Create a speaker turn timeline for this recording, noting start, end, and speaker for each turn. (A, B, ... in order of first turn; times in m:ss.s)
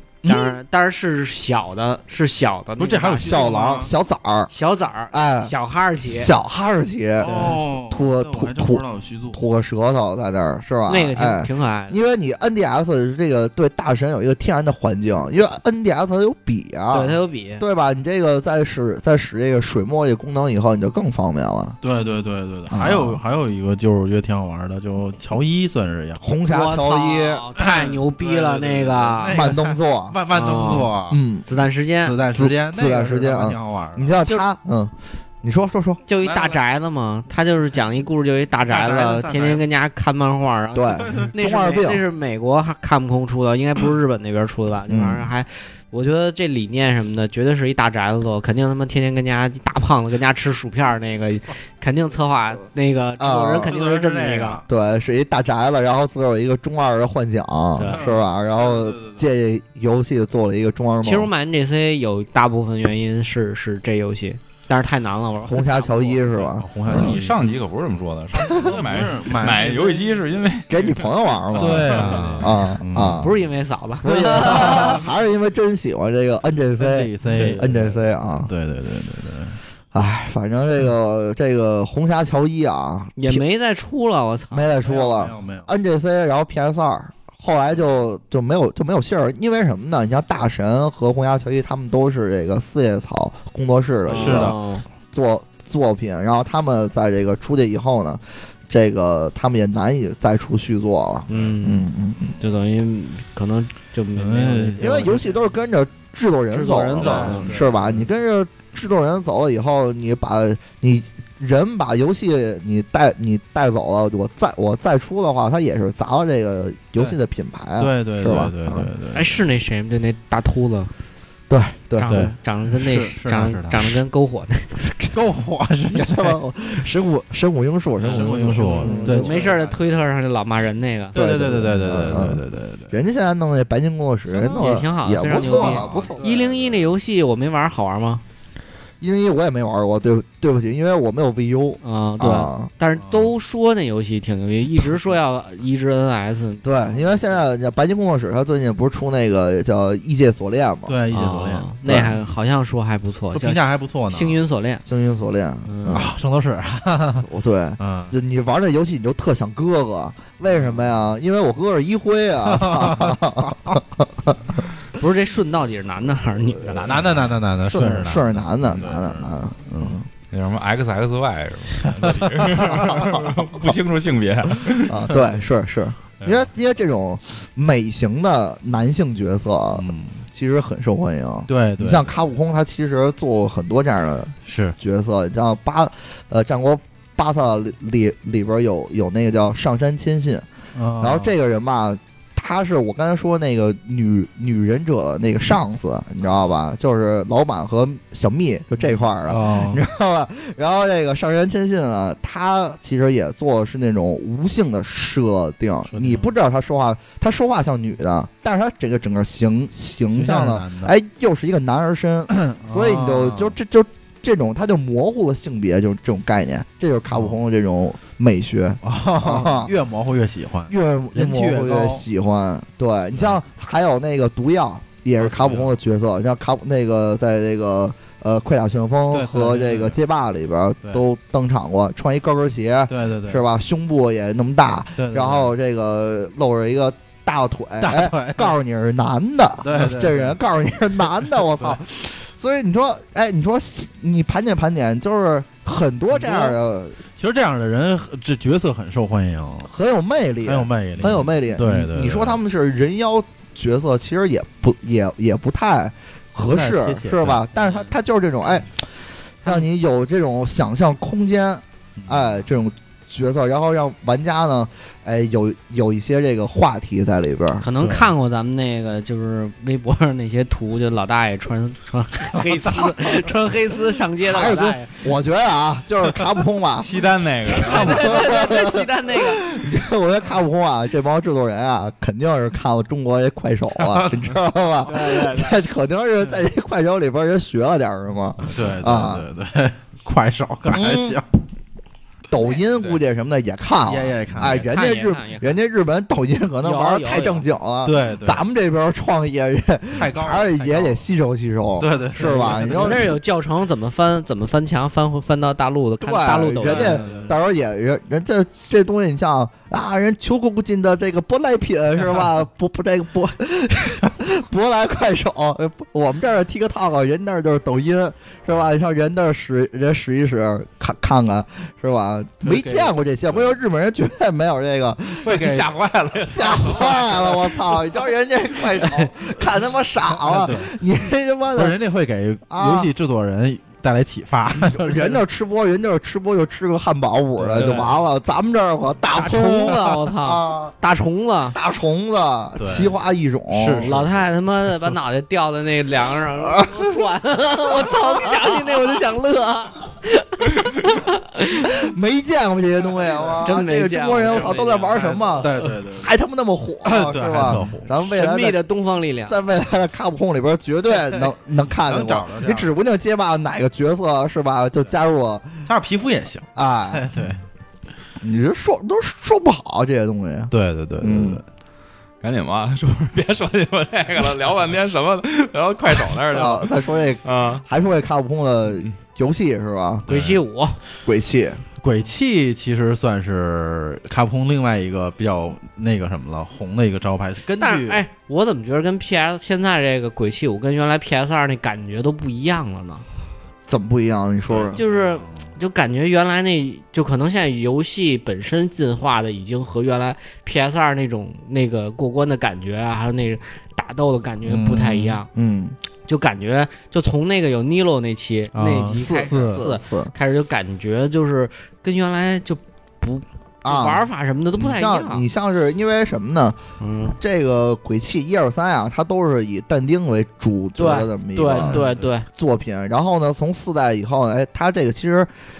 0:00.2-0:00.6 A
0:00.2-0:03.4 B
0:02.8-0:03.9 A
0:03.2-0:04.5 C
0:04.5-0:06.3 B
0:05.1-0:05.5 C
0:06.0-0:07.4 C
0:07.2-0:09.4 A
0:07.2-0:07.6 B
0:07.9-0:21.8 C
0:10.9-0:12.0 B
0:16.9-0:17.6 B
0:21.8-0:26.2 A
0:22.7-0:23.2 C
0:26.2-0:27.4 C
0:26.5-0:29.5 B
0:27.6-0:31.2 A
0:29.3-0:30.2 C
0:30.3-0:30.9 B
0:31.0-0:31.5 C
0:31.5-0:32.2 B
0:32.0-0:34.2 A
0:32.3-0:36.0 C
0:36.1-0:54.6 B
0:36.2-0:36.6 A
0:38.7-0:39.6 A
0:40.7-0:42.0 C
0:41.0-0:41.3 A
0:44.9-0:45.3 C
0:53.2-0:53.8 C
0:53.6-0:54.6 A
0:54.7-1:01.3 C
0:57.8-0:58.1 B
0:57.8-0:59.3 A
1:01.0-1:06.2 B
1:05.4-1:07.1 C
1:06.3-1:07.5 A
1:06.9-1:11.1 D
1:08.4-1:10.3 A
1:08.4-1:08.7 C
1:10.7-1:13.3 C
1:11.5-1:13.4 A
1:11.7-1:12.4 D
1:13.2-1:15.0 B
1:14.0-1:18.5 C
1:14.7-1:15.0 A
1:16.8-1:19.6 A
1:17.3-1:17.6 B
1:19.9-1:23.4 C
1:23.2-1:24.6 B
1:24.5-1:34.6 C
1:24.8-1:25.7 A
1:34.1-1:34.6 A
1:34.1-1:34.8 B
1:35.1-1:42.3 C
1:41.3-1:41.6 A
1:41.3-1:45.2 B
1:44.2-1:45.5 A
1:44.8-1:58.9 C
1:46.5-1:47.5 B
1:47.0-1:48.1 A
1:57.8-1:59.4 A
1:59.1-2:00.9 B
2:01.5-2:02.3 C
2:02.0-2:04.7 B
2:02.1-2:04.0 A
2:04.9-2:05.2 C
2:05.1-2:06.4 A
2:05.9-2:09.5 C
2:08.0-2:10.0 A
2:08.8-2:11.2 B
2:11.1-2:13.0 A
2:11.1-2:16.4 C
2:14.3-2:16.8 A
2:14.5-2:18.2 B
2:19.0-2:22.7 C
2:21.8-2:27.2 B
2:23.0-2:23.3 A
2:26.6-2:31.0 C
2:30.9-2:32.0 A
2:31.1-2:34.8 B
2:31.8-2:32.1 C
2:33.3-2:34.4 A
2:34.8-2:36.1 C
2:35.7-2:36.0 B
2:35.9-2:37.3 A
2:37.2-2:44.6 C
2:37.8-2:38.1 A
2:40.5-2:41.1 A
2:42.4-2:43.8 A
2:45.0-2:46.9 B
2:46.6-2:47.4 D
2:46.8-2:50.0 A
2:47.6-2:50.0 C
2:50.3-2:55.1 D
2:51.8-2:53.1 A
2:52.5-2:53.6 C
2:54.6-3:10.4 C
2:56.2-2:56.5 A
2:59.7-3:00.2 A
3:01.5-3:02.1 A
3:04.4-3:04.8 A
3:10.8-3:11.3 A
3:11.0-3:39.7 C
3:19.2-3:19.8 A
3:25.9-3:26.3 A
3:30.1-3:30.9 A
3:32.3-3:33.6 A
3:37.1-3:37.4 A
3:38.8-3:42.0 A
3:40.7-4:07.0 C
3:45.2-3:45.8 A
3:49.1-3:50.0 A
3:52.9-3:53.4 A
3:55.0-3:55.5 A
3:57.8-3:58.6 A
3:59.6-4:00.4 A
4:01.2-4:01.8 A
4:06.1-4:06.6 A
4:07.2-4:09.7 A
4:09.6-4:18.7 C
4:10.4-4:12.4 A
4:16.4-4:17.5 A
4:19.4-4:27.6 C
4:22.0-4:22.5 A
4:27.6-4:35.0 B
4:27.8-4:28.1 A
4:32.3-4:33.3 A
4:34.2-4:49.3 C
4:36.8-4:38.1 D
4:37.6-4:39.4 B
4:43.7-4:44.9 A
4:44.8-4:45.6 B
4:48.5-4:51.3 A
4:50.7-4:51.2 C
4:52.3-5:03.1 C
4:53.8-4:54.7 A
4:54.5-4:55.6 B
4:56.6-4:57.4 B
4:57.8-4:58.4 A
4:59.9-5:01.0 A
5:01.8-5:03.1 A
5:02.2-5:07.0 B
5:06.0-5:31.8 C
5:06.6-5:07.4 A
5:22.4-5:23.6 A
5:25.2-5:25.8 A
5:25.8-5:26.5 D
5:30.2-5:30.7 A
5:31.5-5:35.2 A
5:32.5-5:32.9 C
5:34.6-5:40.7 C
5:37.4-5:37.8 A
5:37.5-5:37.9 B
5:39.1-5:41.6 B
5:41.5-5:44.0 C
5:42.6-5:42.9 A
5:43.5-5:44.3 A
5:43.8-5:51.8 B
5:46.4-5:46.9 C
5:47.7-5:48.8 C
5:51.7-5:58.6 C
5:52.9-5:53.5 A
5:53.4-5:55.7 B
5:54.9-5:56.1 A
5:56.8-5:57.9 A
5:57.9-5:59.4 B
5:59.3-6:05.6 C
6:01.8-6:02.7 A
6:05.7-6:07.4 A
6:06.5-6:07.1 C
6:08.2-6:11.4 C
6:10.5-6:11.4 A
6:12.2-6:17.6 D
6:16.3-6:20.1 C
6:20.1-6:20.4 A
6:20.1-6:20.8 B
6:21.0-6:21.6 C
6:21.8-6:28.0 A
6:27.6-6:33.0 B
6:33.7-6:34.8 C
6:34.5-6:35.5 A
6:34.7-6:45.3 B
6:44.4-6:45.2 A
6:45.3-6:45.8 C
6:46.1-6:55.2 B
6:48.5-6:49.6 A
6:48.9-6:50.1 C
6:53.6-6:56.6 C
6:56.8-6:57.2 B
6:57.2-7:01.8 C
7:00.8-7:02.3 B
7:01.6-7:02.1 A
7:02.3-7:05.3 C